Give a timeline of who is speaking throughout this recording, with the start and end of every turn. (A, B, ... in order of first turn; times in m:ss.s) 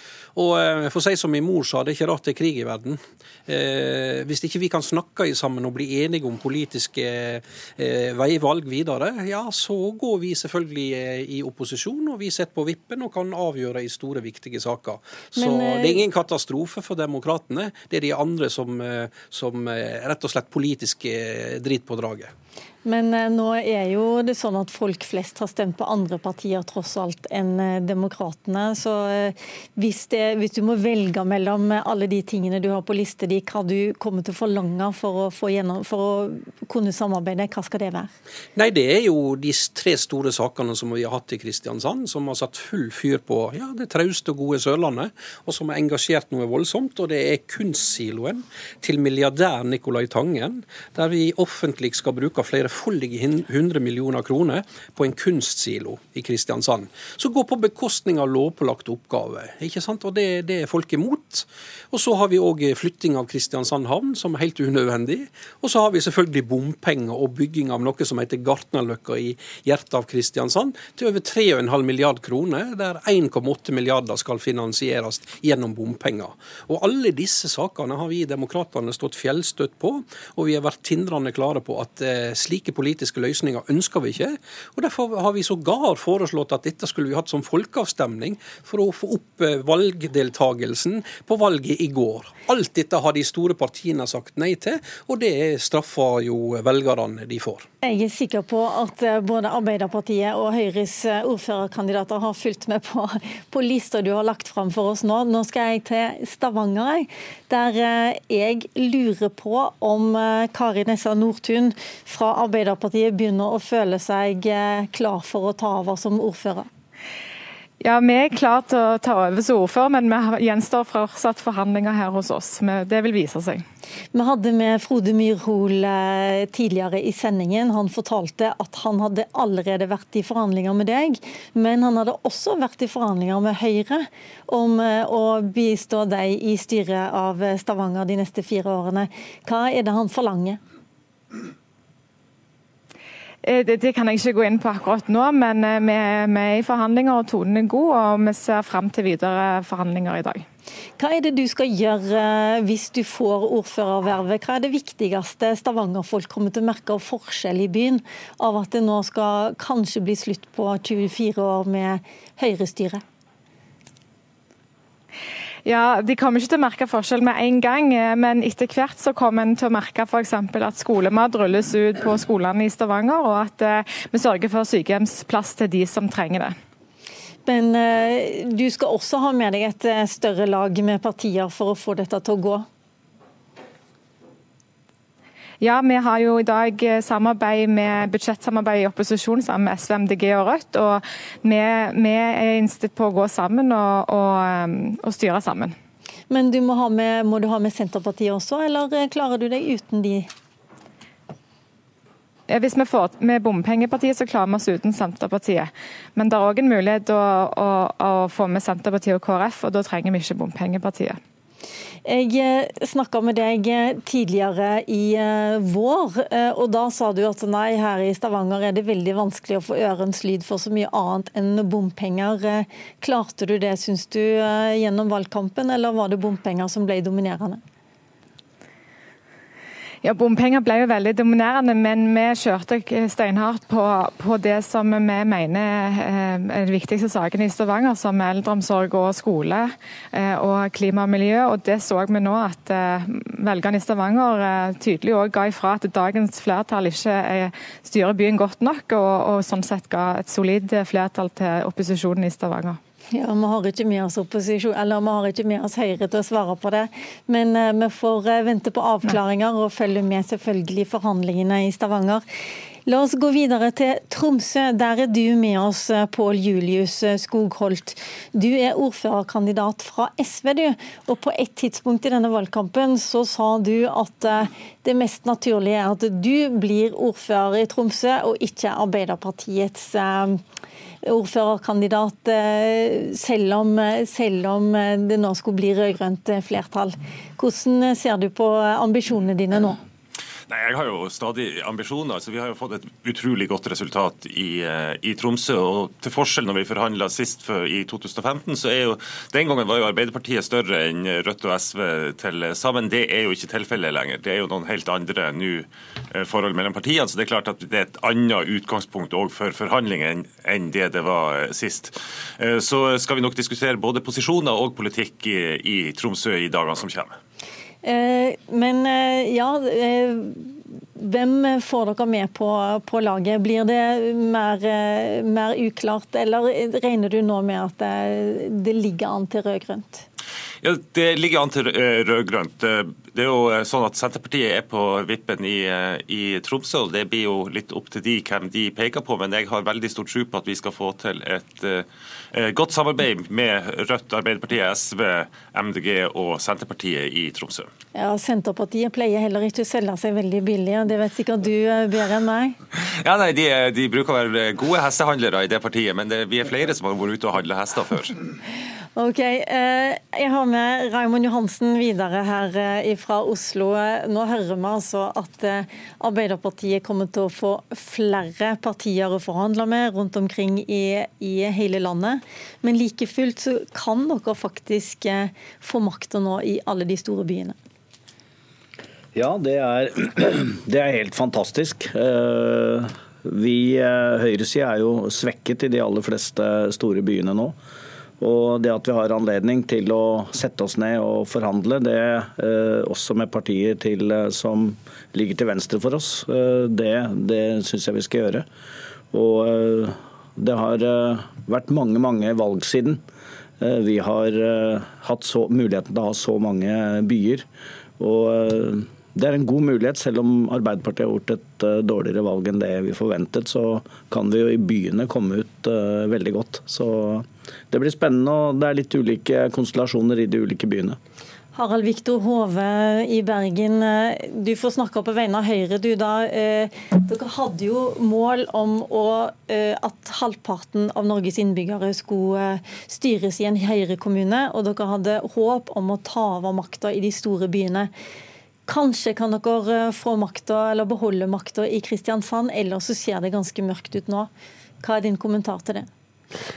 0:00.4-0:22.3 A
0:15.4-0:16.0 B
0:22.8-0:38.1 B
0:38.6-1:37.7 A
1:37.8-1:56.7 B
1:57.8-2:03.6 C
2:04.1-2:20.6 B
2:23.4-2:30.4 C
2:31.0-2:43.0 B
2:45.6-2:56.5 C
2:57.4-3:02.6 B
3:05.6-3:15.7 C
3:16.3-3:20.3 B
3:22.5-3:31.2 C
3:32.0-3:47.6 B
3:50.0-4:12.8 C
4:13.1-4:22.2 B
4:22.9-4:40.4 B
4:41.0-4:49.8 B
4:50.5-5:17.2 D
5:17.8-5:30.1 B
5:30.6-5:47.7 D
5:48.0-5:52.5 B
5:52.7-5:58.2 D
5:59.0-6:17.6 B
6:19.2-6:27.6 E
6:28.2-6:38.4 E
6:39.1-6:43.0 E
6:43.6-6:47.4 E
6:48.0-7:01.0 E
7:01.5-7:17.9 B
7:18.7-7:24.3 B
7:24.8-7:25.9 B